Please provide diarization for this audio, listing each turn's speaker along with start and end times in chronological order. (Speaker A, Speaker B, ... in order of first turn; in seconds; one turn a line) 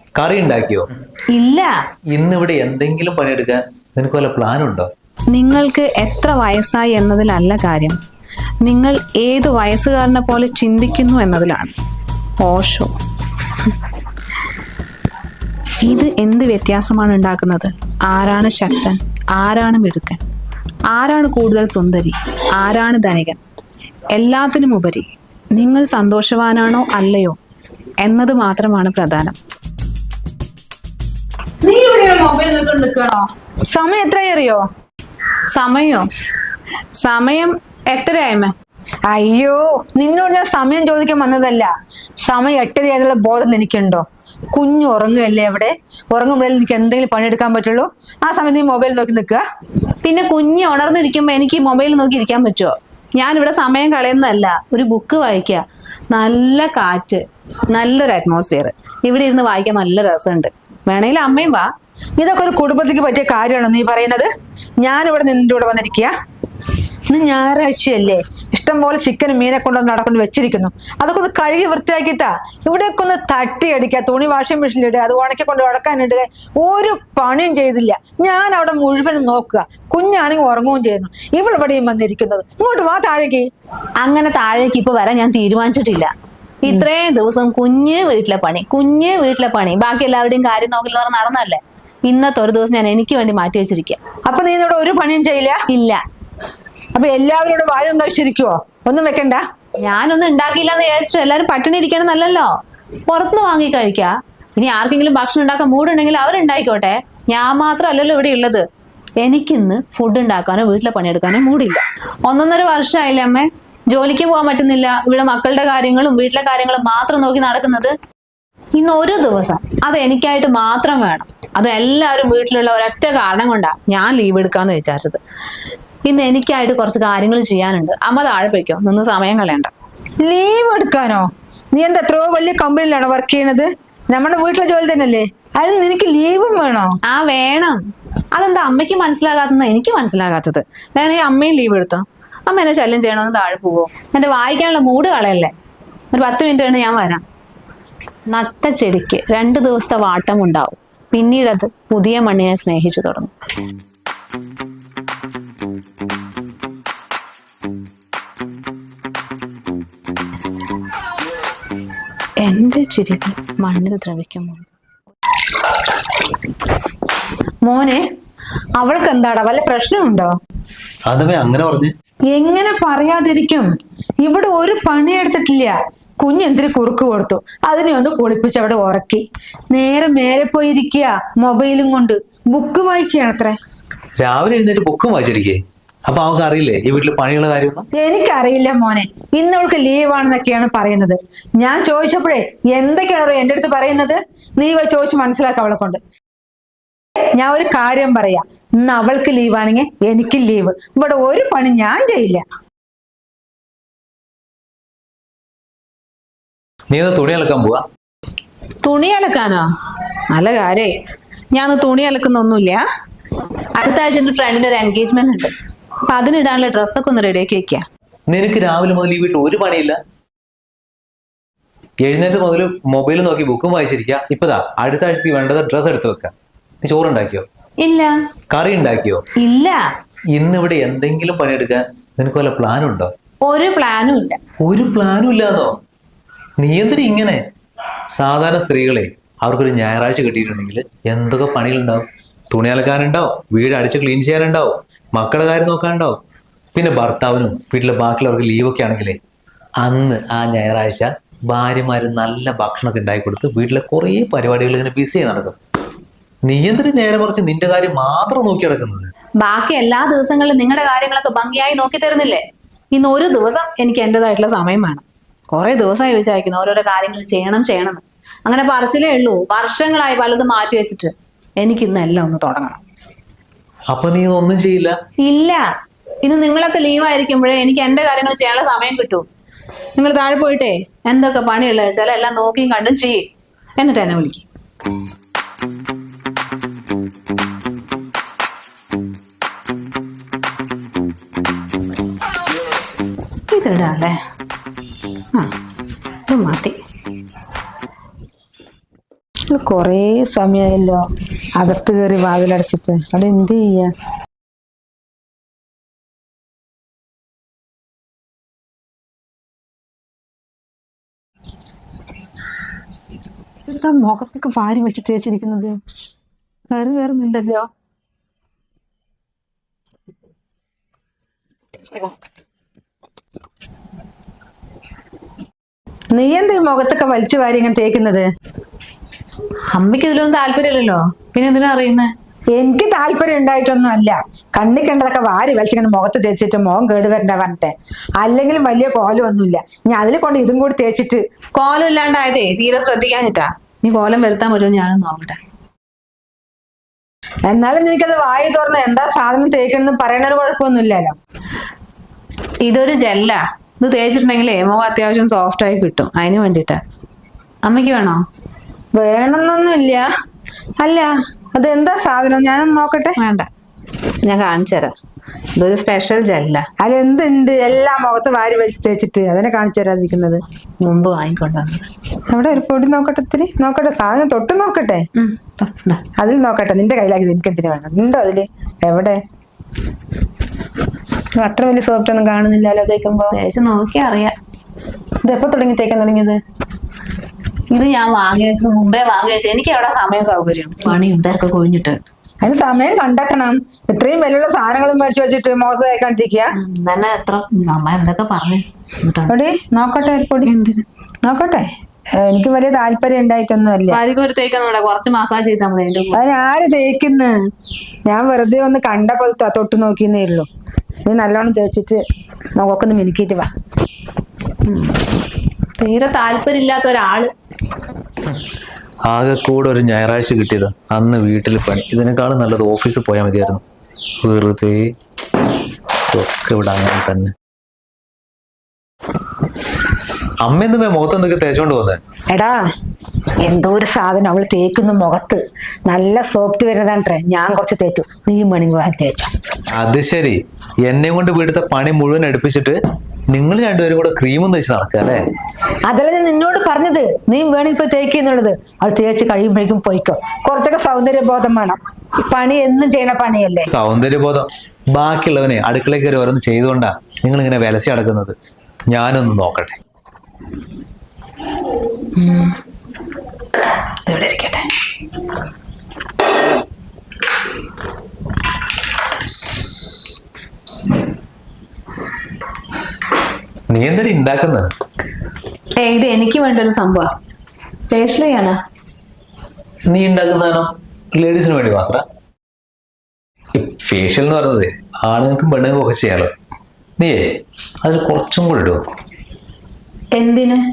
Speaker A: 0.1-0.9
Speaker B: 1.3-1.8
Speaker A: 2.1-4.9
Speaker B: 5.3-8.0
Speaker B: 8.6-11.7
Speaker B: 12.4-12.9
Speaker B: 15.8-20.2
Speaker B: 20.9-23.4
Speaker B: 24.1-27.4
Speaker B: 28.0-29.4
Speaker C: 31.6-34.6
Speaker B: 35.5-36.0
Speaker B: 37.0-38.5
Speaker C: 39.1-41.7
Speaker C: 42.2-49.4
Speaker B: 50.0-61.7
Speaker C: 62.2-66.1
Speaker C: 67.1-83.5
Speaker B: 84.0-86.1
Speaker B: 86.6-94.0
Speaker C: 94.3-95.6
Speaker B: 95.7-96.0
Speaker C: 96.9-99.4
Speaker B: 99.8-102.5
Speaker B: 103.1-108.6
Speaker B: 109.2-117.9
Speaker B: 118.8-125.2
Speaker B: 126.0-129.7
Speaker C: 130.2-136.9
Speaker B: 137.0-137.8
Speaker B: 138.3-145.5
Speaker B: 146.1-147.2
Speaker B: 148.3-153.3
Speaker B: 162.4-164.7
Speaker C: 167.7-168.0
Speaker C: 168.8-170.3
Speaker A: 171.1-171.9
Speaker C: 172.3-173.7
Speaker C: 174.2-183.6
Speaker A: 184.2-187.9
Speaker C: 187.9-196.0
Speaker C: 197.4-202.4
Speaker A: 206.9-207.8
Speaker B: 208.8-209.7
Speaker B: 210.3-210.9
Speaker B: 211.5-212.8
Speaker B: 213.8-215.5
Speaker B: 216.1-217.8
Speaker A: 218.3-220.0
Speaker A: 222.0-227.4
Speaker B: 227.8-228.2
Speaker A: 228.5-229.2
Speaker B: 229.3-229.8
Speaker A: 230.3-233.1
Speaker B: 233.4-234.4
Speaker A: 234.6-235.7
Speaker A: 236.6-237.4
Speaker A: 238.1-246.2
Speaker A: 246.7-249.2
Speaker A: 249.8-255.6
Speaker A: 256.5-259.1
Speaker B: 259.4-262.4
Speaker B: 262.9-272.8
Speaker A: 273.9-274.9
Speaker B: 275.2-275.6
Speaker B: 276.2-279.2
Speaker B: 279.9-283.2
Speaker B: 283.8-284.4
Speaker B: 293.5-294.2
Speaker B: 296.3-296.8
Speaker C: 299.5-301.0
Speaker C: 301.6-303.9
Speaker C: 313.6-315.8
Speaker C: 316.7-317.7
Speaker C: 326.1-328.2
Speaker B: 329.7-332.1
Speaker C: 332.5-341.2
Speaker B: 341.5-345.4
Speaker C: 347.5-351.1
Speaker B: 352.6-356.8
Speaker B: 357.6-358.2
Speaker C: 358.9-360.1
Speaker C: 360.8-363.2
Speaker B: 363.2-363.5
Speaker B: 364.2-364.9
Speaker B: 365.6-366.6
Speaker C: 366.8-370.4
Speaker B: 370.8-371.9
Speaker C: 372.3-375.1
Speaker B: 375.1-376.0
Speaker C: 376.2-379.2
Speaker C: 381.3-383.3
Speaker B: 383.3-384.4
Speaker C: 385.2-386.4
Speaker B: 387.7-392.0
Speaker C: 392.4-396.5
Speaker B: 396.5-399.3
Speaker C: 399.3-400.5
Speaker B: 400.4-400.8
Speaker C: 401.2-401.7
Speaker C: 402.2-404.0
Speaker B: 403.9-406.5
Speaker C: 406.1-407.3
Speaker C: 408.1-410.5
Speaker C: 411.1-412.0
Speaker C: 412.6-413.5
Speaker B: 414.7-414.9
Speaker B: 415.8-417.3
Speaker A: 419.1-423.6
Speaker A: 424.2-424.8
Speaker A: 426.1-427.3
Speaker A: 430.4-432.0
Speaker C: 432.3-432.6
Speaker C: 433.4-439.3
Speaker A: 439.7-442.8
Speaker A: 443.3-445.2
Speaker C: 445.9-453.7
Speaker A: 453.7-458.4
Speaker A: 458.9-459.8
Speaker B: 462.2-462.5
Speaker B: 464.0-464.7
Speaker A: 473.7-474.7
Speaker B: 475.8-477.1
Speaker B: 477.9-478.6
Speaker A: 479.9-482.0
Speaker A: 483.5-486.3
Speaker A: 487.8-488.8
Speaker B: 490.1-490.6